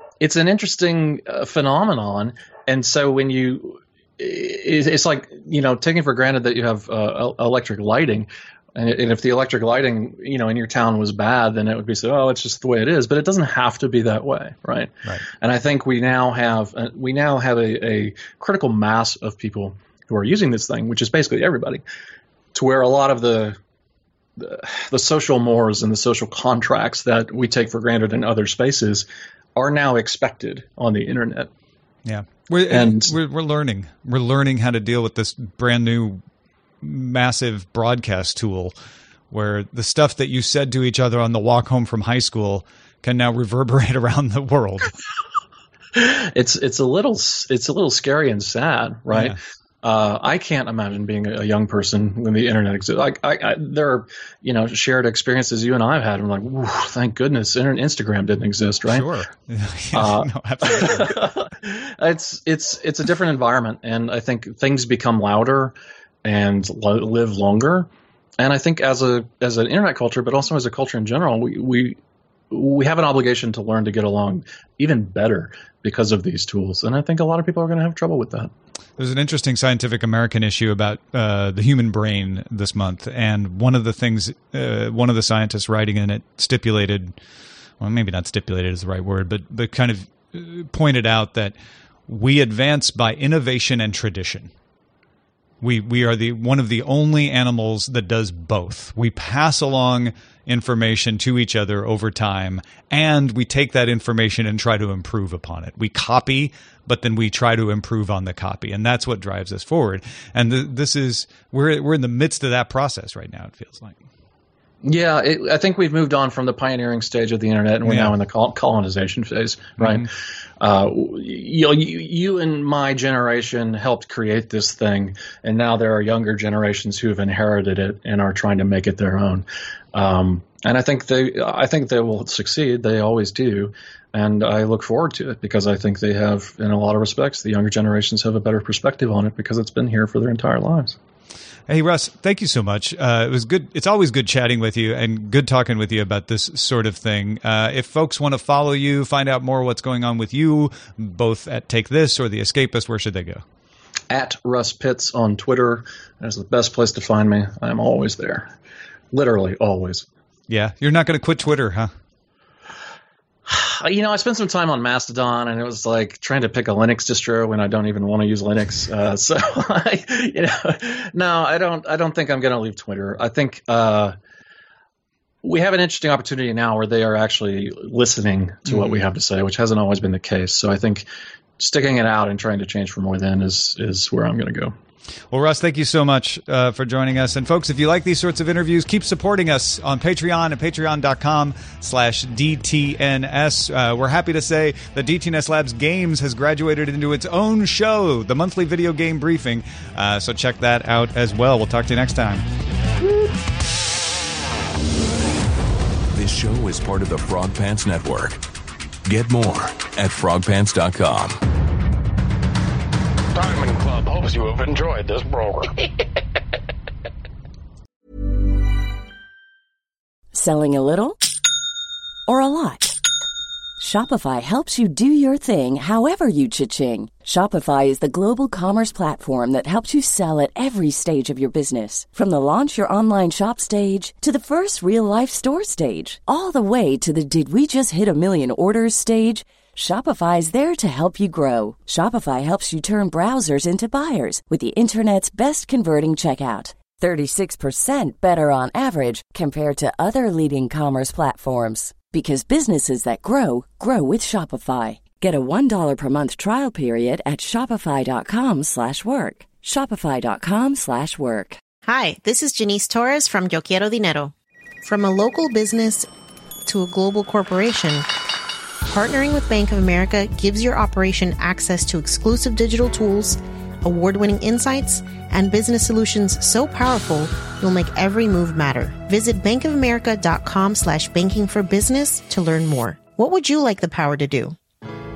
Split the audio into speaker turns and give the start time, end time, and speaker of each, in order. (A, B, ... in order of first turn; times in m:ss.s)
0:00.2-0:21.8 A
0:22.5-0:23.6 A
0:24.4-0:31.5 A
0:32.0-0:36.2 B
0:32.7-0:33.1 A
0:36.8-0:38.7 B
0:39.3-0:44.9 B
0:45.9-0:59.0 A
0:49.1-0:49.4 B
0:58.9-1:01.2 B
0:59.9-1:07.9 A
1:08.4-1:12.0 A
1:12.5-1:18.5 A
1:19.0-1:27.2 B
1:27.8-1:31.5 B
1:32.1-1:34.5 B
1:35.6-1:54.0 B
1:54.8-2:00.1 A
1:57.8-1:58.1 B
1:59.8-2:00.0 B
2:00.6-2:21.0 A
2:21.7-2:33.4 B
2:34.1-2:38.5 A
2:39.1-2:40.0 A
2:40.5-2:41.9 B
2:43.5-2:54.2 A
2:55.4-3:01.0 A
2:58.7-2:59.0 B
3:01.6-3:04.7 A
3:05.3-3:22.4 B
3:26.1-3:28.4 C
3:29.0-3:31.4 C
3:33.3-3:35.8 D
3:40.3-3:41.2 E
3:42.3-3:43.0 E
3:43.8-4:21.6 E
4:21.8-4:24.3 F
4:24.8-4:26.1 F
4:26.6-4:28.1 F
4:28.8-4:44.6 F